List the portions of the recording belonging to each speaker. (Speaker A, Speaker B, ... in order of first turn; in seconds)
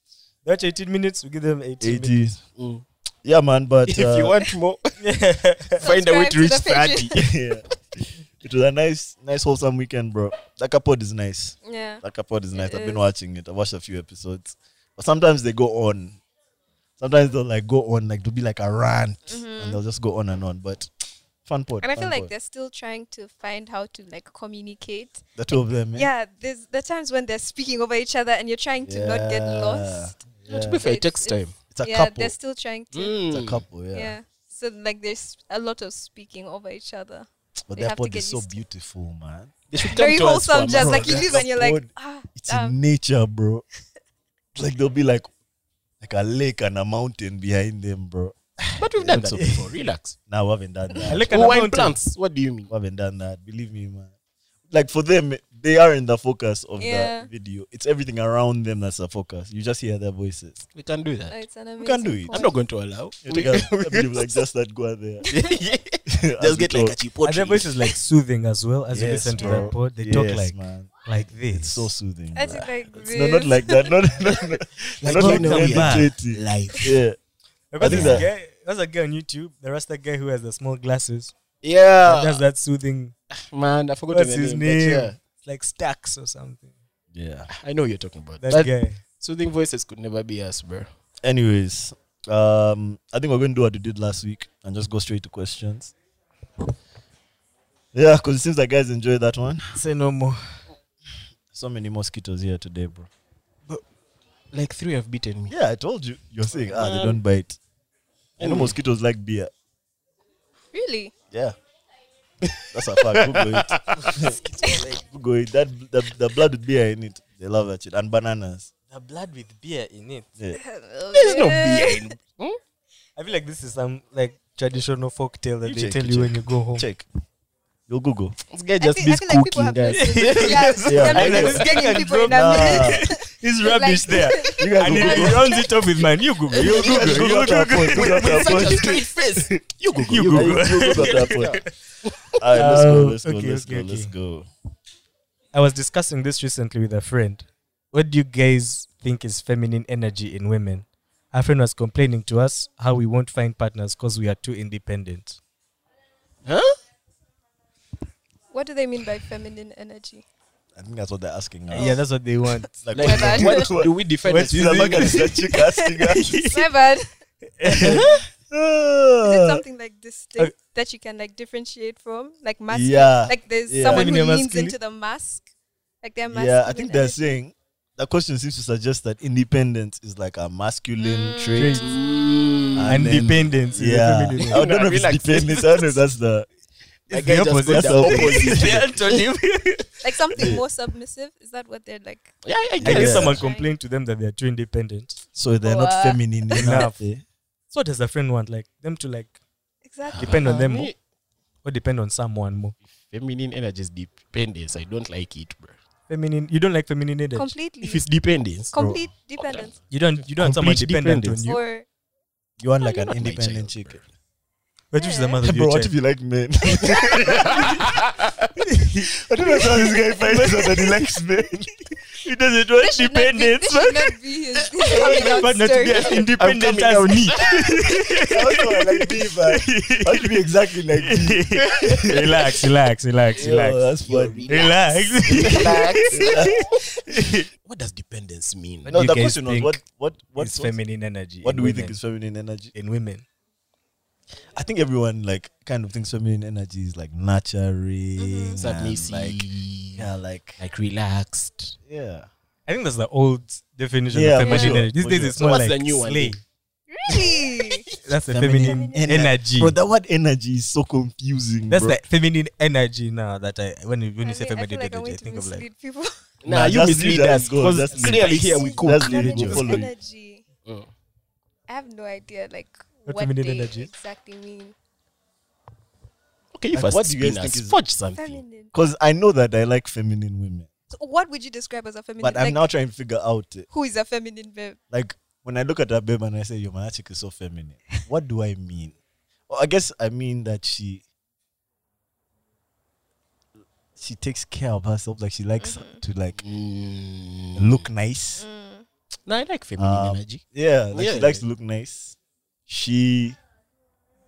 Speaker A: 0.5-2.2, 5.0-5.8, 51.1-52.0, 67.2-71.9, 75.0-76.1, 77.7-81.3, 82.0-83.1, 84.1-86.7, 88.4-89.0, 99.7-100.6, 118.9-120.3, 123.2-126.9, 129.9-138.7, 140.1-141.7, 142.5-144.1, 145.5-155.4, 161.7-163.4, 164.3-165.6, 166.1-166.6, 167.6-168.2, 173.8-174.8, 181.6-182.0, 182.9-184.6, 187.1-189.9, 192.8-195.2, 196.6-197.0, 197.7-199.3, 200.2-200.9, 201.6-202.8, 206.1-207.5, 209.9-211.6, 214.9-215.9, 218.7-219.1, 222.3-224.2, 224.9-230.4, 231.0-233.8, 234.5-237.5, 238.9-239.8, 240.4-242.0, 242.8-243.2, 252.7-256.4, 258.0-259.8, 261.7-265.6, 273.1-273.9
Speaker B: 1.8-2.4, 3.2-4.4, 7.1-16.2, 17.0-20.9, 21.4-22.3, 25.4-26.1, 28.8-30.8, 31.7-32.4, 33.3-34.1, 37.7-39.5, 40.7-43.6, 44.5-45.3, 46.0-49.6, 50.3-51.5, 52.7-54.1, 54.7-60.6, 61.8-62.4, 63.2-65.3, 66.1-67.0, 68.9-77.2, 77.8-78.3, 87.1-87.5, 91.2-95.9, 97.9-99.8, 101.5-103.1, 105.5-107.6, 108.4-109.5, 111.3-111.6, 112.7-118.7, 125.6-127.0, 127.9-128.4, 130.9-133.1, 134.1-135.6, 136.6-139.6, 140.2-141.6, 142.4-144.5, 160.8-162.0, 162.8-166.4, 167.6-169.6, 172.7-174.1, 176.3-181.8, 182.8-186.5, 187.6-188.8, 190.4-190.6, 192.8-193.4, 195.3-197.2, 208.8-209.1, 212.6-214.0, 215.4-217.8, 219.1-222.9, 228.3-232.5, 233.3-234.6, 235.4-236.7, 238.9-240.8, 241.4-242.8, 244.5-250.6, 251.9-252.3, 254.1-255.4, 258.3-262.0, 266.5-269.9, 276.7-277.8, 278.7-280.7, 282.2-283.7, 284.9-288.9, 289.5-291.0, 294.0-296.4, 297.6-298.4, 299.8-302.2, 302.7-303.4
Speaker C: 2.6-2.9, 3.9-5.0, 5.8-7.2, 30.5-31.6, 32.9-33.6, 39.7-41.3, 48.8-50.2, 51.3-52.7, 60.7-61.4, 62.3-64.3, 65.3-68.0, 75.0-76.9, 77.8-78.3, 81.6-82.4, 83.3-85.2, 87.5-90.9, 104.5-105.5, 106.8-107.1, 108.4-108.8, 112.4-114.2, 121.1-122.6, 128.5-131.8, 136.6-137.3, 137.8-142.8, 156.5-156.8, 162.9-165.3, 181.8-183.4, 184.4-186.0, 187.1-189.2, 192.4-193.5, 200.1-201.0, 203.0-205.8, 207.8-208.8, 209.4-209.7, 210.4-211.5, 212.8-214.1, 217.1-218.5, 224.9-227.8, 234.0-236.7, 237.6-239.0, 248.6-250.1, 250.6-251.8, 254.5-254.8, 255.3-256.4, 266.4-269.7, 270.7-270.9, 276.5-278.4, 296.4-297.9, 299.3-301.4
Speaker D: 5.8-7.3, 11.7-12.0, 12.5-13.0, 19.3-19.8, 21.8-33.2, 33.9-38.6, 39.9-42.8, 56.8-57.3, 61.3-62.5, 69.3-69.7, 72.3-74.0, 110.7-111.1, 120.5-122.1, 128.8-135.7, 158.5-160.2, 163.0-163.8, 165.6-167.1, 169.2-175.5, 176.0-177.4, 181.0-182.7, 190.0-192.3, 193.3-193.7, 195.6-196.8, 199.8-200.5, 207.3-208.0, 208.7-209.8, 211.4-211.8, 215.0-215.4, 216.8-217.5, 222.8-226.3, 248.2-248.6, 254.4-254.7, 256.9-257.9, 258.6-259.0, 264.2-266.2, 268.1-270.4, 271.7-274.8, 278.2-278.7, 280.9-282.6, 283.7-284.8, 295.6-296.0, 298.4-298.9